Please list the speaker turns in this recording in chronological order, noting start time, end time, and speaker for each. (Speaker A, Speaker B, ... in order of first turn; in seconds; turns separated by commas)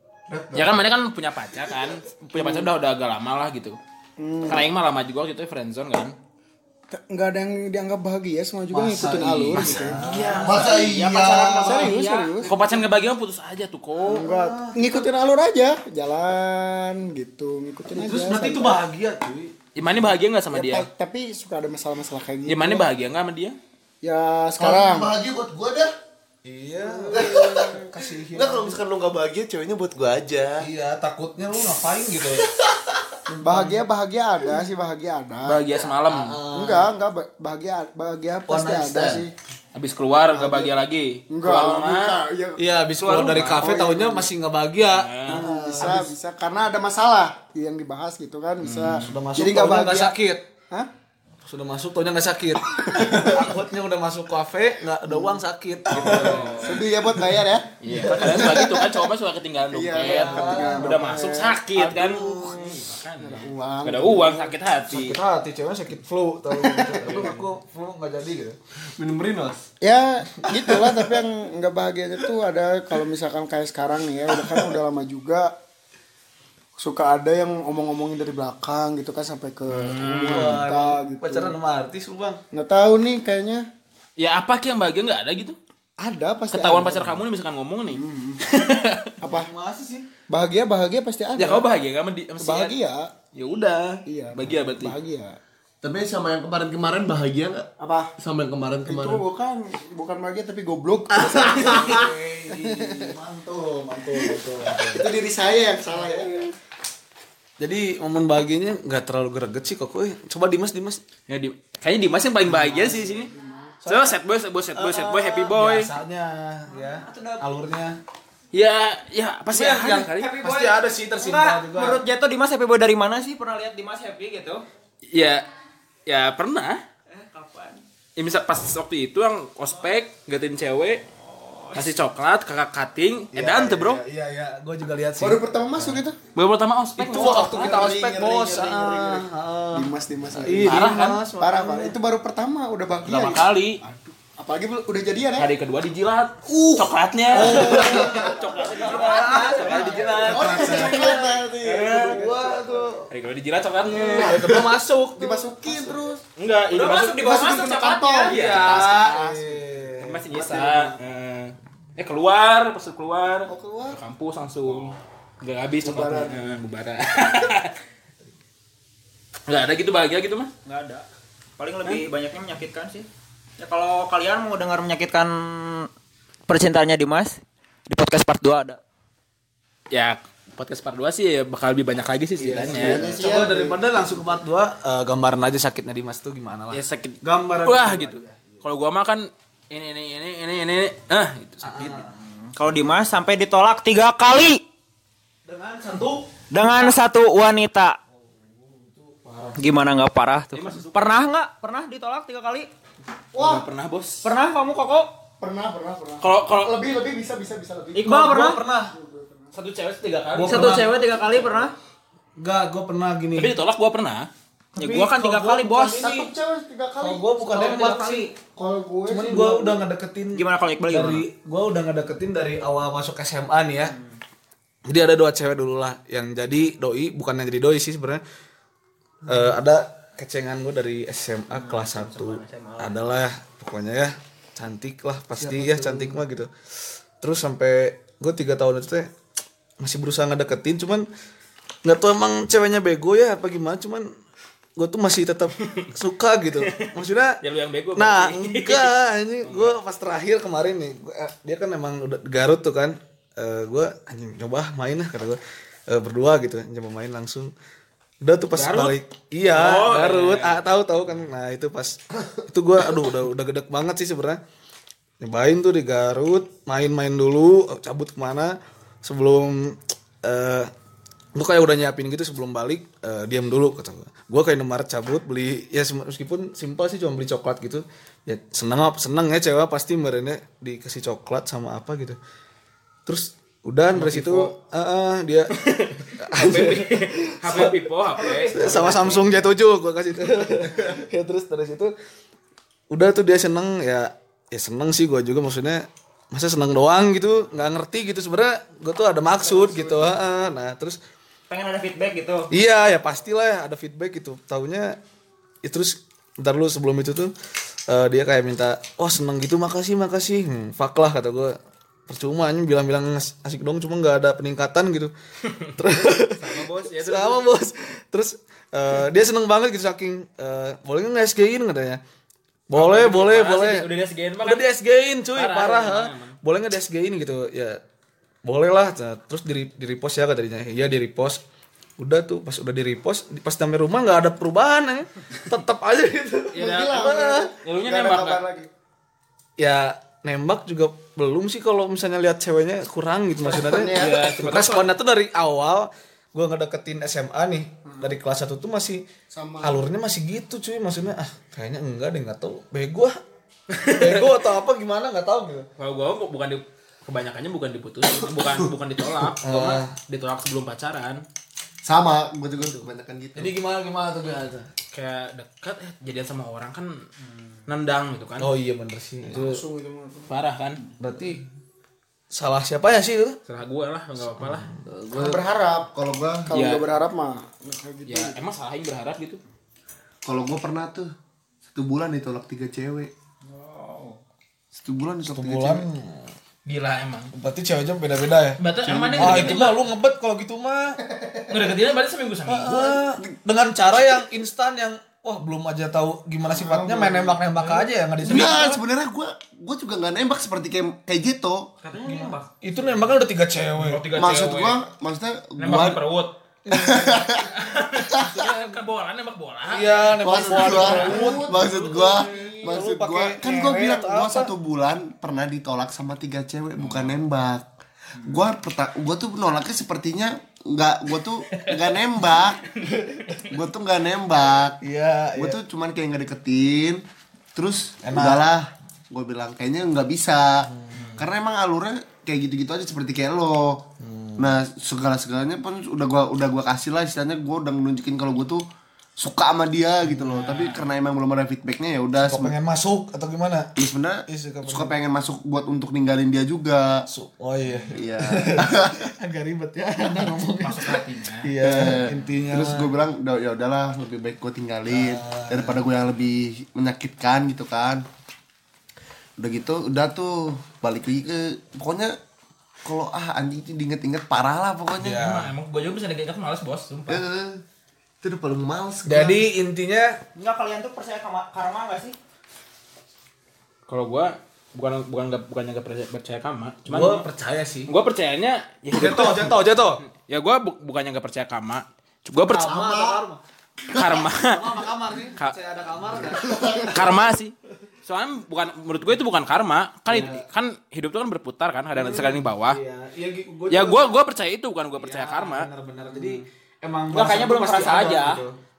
Speaker A: 0.3-0.8, Speaker B: 0.5-3.8, Speaker C: 2.3-2.7, Speaker C: 4.2-4.7, Speaker B: 4.5-6.2, Speaker C: 6.9-10.0, Speaker A: 8.7-11.1, Speaker B: 9.5-10.7, Speaker D: 10.4-11.7, Speaker E: 10.6-12.5, Speaker C: 11.6-12.5, Speaker B: 12.4-14.2, Speaker C: 14.1-18.8, Speaker A: 14.1-15.1, Speaker A: 17.9-19.6, Speaker B: 19.8-20.9, Speaker C: 20.5-22.9, Speaker B: 22.5-23.6, Speaker C: 24.0-25.1, Speaker D: 24.6-25.9, Speaker A: 26.4-28.8, Speaker C: 26.8-27.8, Speaker D: 27.1-30.7, Speaker A: 30.6-32.5, Speaker A: 33.3-33.8, Speaker C: 33.4-35.6, Speaker B: 35.5-36.4, Speaker A: 36.1-36.9, Speaker C: 36.5-39.3, Speaker A: 38.5-39.3, Speaker B: 39.8-42.2, Speaker C: 40.3-42.6, Speaker A: 42.6-46.1, Speaker B: 43.0-43.6, Speaker C: 43.2-44.3, Speaker B: 44.9-45.4, Speaker C: 45.3-50.2, Speaker B: 48.6-49.2, Speaker A: 49.0-50.5, Speaker A: 51.4-56.7, Speaker C: 52.9-53.3, Speaker C: 55.1-55.4, Speaker B: 55.9-56.8, Speaker C: 56.0-59.0, Speaker B: 57.8-65.2, Speaker A: 57.9-58.7, Speaker C: 59.7-64.5, Speaker A: 60.0-61.0, Speaker A: 64.9-68.6, Speaker C: 66.5-67.3, Speaker D: 69.0-69.7, Speaker C: 69.8-75.5, Speaker C: 76.8-81.5, Speaker B: 79.7-80.6, Speaker A: 80.3-82.4, Speaker C: 82.5-83.7, Speaker B: 84.2-85.6, Speaker C: 86.0-87.2, Speaker B: 86.5-89.1, Speaker C: 87.9-88.4, Speaker C: 89.2-89.5, Speaker A: 89.2-90.1, Speaker C: 90.3-91.7, Speaker B: 91.4-92.8, Speaker C: 92.4-93.1, Speaker B: 93.3-95.0, Speaker C: 94.1-95.4, Speaker D: 95.8-97.7, Speaker C: 97.8-98.1, Speaker D: 98.2-99.2, Speaker C: 98.9-103.2, Speaker A: 101.2-105.1, Speaker C: 104.0-106.5, Speaker A: 106.0-106.3, Speaker A: 107.6-111.0, Speaker B: 111.3-113.3, Speaker A: 112.5-112.8, Speaker C: 112.6-113.8, Speaker A: 113.8-114.1, Speaker B: 113.9-115.9, Speaker A: 114.8-118.0, Speaker E: 116.7-117.5, Speaker B: 118.5-120.3, Speaker A: 119.5-122.0, Speaker E: 120.1-124.6, Speaker B: 125.1-125.5, Speaker B: 126.1-126.8, Speaker E: 127.1-127.8, Speaker B: 128.2-131.0, Speaker E: 131.3-132.0, Speaker B: 131.8-134.0, Speaker A: 133.3-136.0, Speaker C: 135.2-136.2, Speaker B: 136.3-137.9, Speaker A: 137.0-142.0, Speaker C: 137.2-145.5, Speaker B: 140.5-141.2, Speaker B: 143.1-143.8, Speaker B: 145.4-151.1, Speaker A: 147.3-153.1, Speaker C: 147.4-148.3, Speaker E: 148.6-150.3, Speaker C: 150.2-152.8, Speaker D: 150.3-152.3, Speaker B: 153.1-154.4, Speaker A: 153.8-156.0, Speaker D: 154.1-154.7, Speaker C: 155.2-156.2, Speaker B: 156.4-158.9, Speaker E: 156.7-158.2, Speaker C: 156.8-159.6, Speaker A: 158.3-161.0, Speaker B: 160.0-167.8, Speaker C: 163.5-164.0, Speaker C: 165.8-166.4, Speaker B: 169.5-170.5, Speaker E: 170.7-171.1, Speaker E: 171.6-173.1, Speaker E: 173.6-175.9, Speaker E: 176.5-178.8, Speaker B: 179.9-183.1, Speaker A: 182.4-188.6, Speaker C: 182.5-183.8, Speaker B: 186.7-192.0, Speaker A: 191.6-192.1, Speaker E: 192.4-194.6, Speaker A: 195.4-196.3, Speaker E: 196.5-198.0, Speaker A: 198.2-199.8, Speaker E: 199.6-202.7, Speaker B: 200.5-201.1, Speaker C: 203.3-203.7, Speaker B: 203.3-204.3, Speaker E: 204.2-205.1, Speaker C: 205.4-209.5, Speaker B: 206.2-206.8, Speaker E: 207.9-208.6, Speaker A: 208.1-208.9, Speaker B: 209.5-211.1, Speaker A: 210.3-211.0, Speaker E: 210.4-211.8, Speaker A: 212.4-213.6, Speaker B: 213.4-214.3, Speaker E: 214.8-216.1, Speaker A: 214.8-216.3, Speaker C: 215.9-217.3, Speaker A: 217.0-218.3, Speaker E: 217.5-218.3, Speaker C: 218.5-219.8, Speaker A: 219.1-224.0, Speaker E: 220.3-221.3, Speaker A: 224.9-228.2, Speaker A: 229.3-236.5, Speaker E: 231.5-233.0, Speaker A: 237.2-239.1, Speaker A: 239.8-241.1, Speaker A: 241.8-244.1, Speaker A: 244.8-247.4, Speaker B: 245.6-245.9, Speaker B: 246.6-248.9, Speaker A: 247.9-257.5, Speaker B: 249.4-249.7, Speaker A: 258.2-264.4, Speaker B: 258.6-259.0, Speaker B: 259.5-260.6, Speaker A: 265.2-270.7, Speaker A: 271.4-282.2, Speaker A: 283.1-285.6, Speaker B: 284.0-284.4, Speaker B: 285.5-289.2, Speaker A: 286.2-291.9, Speaker A: 292.9-301.0, Speaker C: 299.5-300.0, Speaker E: 301.5-302.5, Speaker A: 302.5-305.0, Speaker A: 305.6-307.3, Speaker A: 307.9-311.6, Speaker A: 312.1-315.1, Speaker B: 315.5-317.5, Speaker A: 315.8-322.0, Speaker A: 322.7-323.9, Speaker B: 322.7-324.7, Speaker A: 324.4-327.8, Speaker B: 325.4-326.4, Speaker A: 328.4-331.4, Speaker A: 332.0-337.5, Speaker B: 336.5-337.1, Speaker C: 336.6-338.7, Speaker B: 337.6-338.4, Speaker A: 339.6-349.0, Speaker C: 343.4-344.3, Speaker B: 343.9-344.9, Speaker C: 349.3-349.8, Speaker A: 349.6-353.1, Speaker B: 353.7-354.4, Speaker A: 353.8-355.7, Speaker B: 355.8-361.2, Speaker A: 359.4-359.9, Speaker D: 361.8-363.5, Speaker B: 362.6-362.9, Speaker A: 363.4-364.7, Speaker B: 364.9-367.0, Speaker B: 367.7-368.5, Speaker A: 368.4-369.6, Speaker C: 369.3-370.3, Speaker B: 370.3-370.8, Speaker A: 371.0-371.4, Speaker A: 372.3-373.4, Speaker B: 373.5-374.7, Speaker A: 374.4-374.8, Speaker D: 375.0-376.5, Speaker C: 375.1-375.9, Speaker C: 376.5-378.4, Speaker B: 376.5-376.8, Speaker B: 378.1-379.4, Speaker D: 380.2-381.1, Speaker D: 381.7-383.1, Speaker C: 383.4-384.2, Speaker D: 384.7-385.9, Speaker A: 385.3-386.3, Speaker B: 386.7-387.3, Speaker A: 387.3-391.0, Speaker B: 388.6-389.8, Speaker D: 389.1-389.4, Speaker B: 391.5-392.9, Speaker A: 392.5-398.8, Speaker C: 396.5-397.7, Speaker D: 398.2-401.7, Speaker E: 401.8-402.5, Speaker A: 401.9-404.1, Speaker B: 403.8-404.8, Speaker D: 404.1-406.0, Speaker B: 405.6-406.3, Speaker A: 406.7-407.2, Speaker D: 406.7-407.5, Speaker B: 407.4-411.4, Speaker D: 408.1-408.3, Speaker A: 409.7-414.5, Speaker D: 410.2-417.7, Speaker C: 411.1-411.3, Speaker B: 416.8-417.1, Speaker D: 418.2-422.6, Speaker A: 422.9-423.4, Speaker D: 423.5-424.8, Speaker A: 424.8-425.6, Speaker D: 425.4-427.0, Speaker D: 427.6-433.9, Speaker A: 428.0-428.4, Speaker B: 430.9-431.2, Speaker A: 434.0-434.6, Speaker D: 434.4-438.6, Speaker D: 439.2-442.5, Speaker B: 440.1-440.9, Speaker A: 442.2-443.7, Speaker D: 443.8-447.1, Speaker A: 444.3-445.0, Speaker A: 447.1-452.9, Speaker D: 447.9-449.1, Speaker B: 450.5-451.5, Speaker D: 451.6-458.1, Speaker A: 454.9-455.8, Speaker D: 459.4-462.2, Speaker D: 462.9-465.3, Speaker A: 465.0-465.5, Speaker B: 465.0-467.2, Speaker D: 467.1-467.6, Speaker D: 468.2-469.4, Speaker A: 469.1-470.2, Speaker E: 470.4-472.2, Speaker B: 473.9-477.2, Speaker A: 476.9-477.9, Speaker B: 477.9-482.9, Speaker A: 478.9-480.0, Speaker A: 482.5-483.4, Speaker D: 482.6-483.2, Speaker B: 483.9-484.8, Speaker A: 484.4-487.2, Speaker D: 486.2-486.9, Speaker B: 486.9-492.8, Speaker A: 490.1-490.4, Speaker A: 491.9-494.1, Speaker B: 493.7-495.7, Speaker A: 495.0-498.6, Speaker E: 497.1-498.4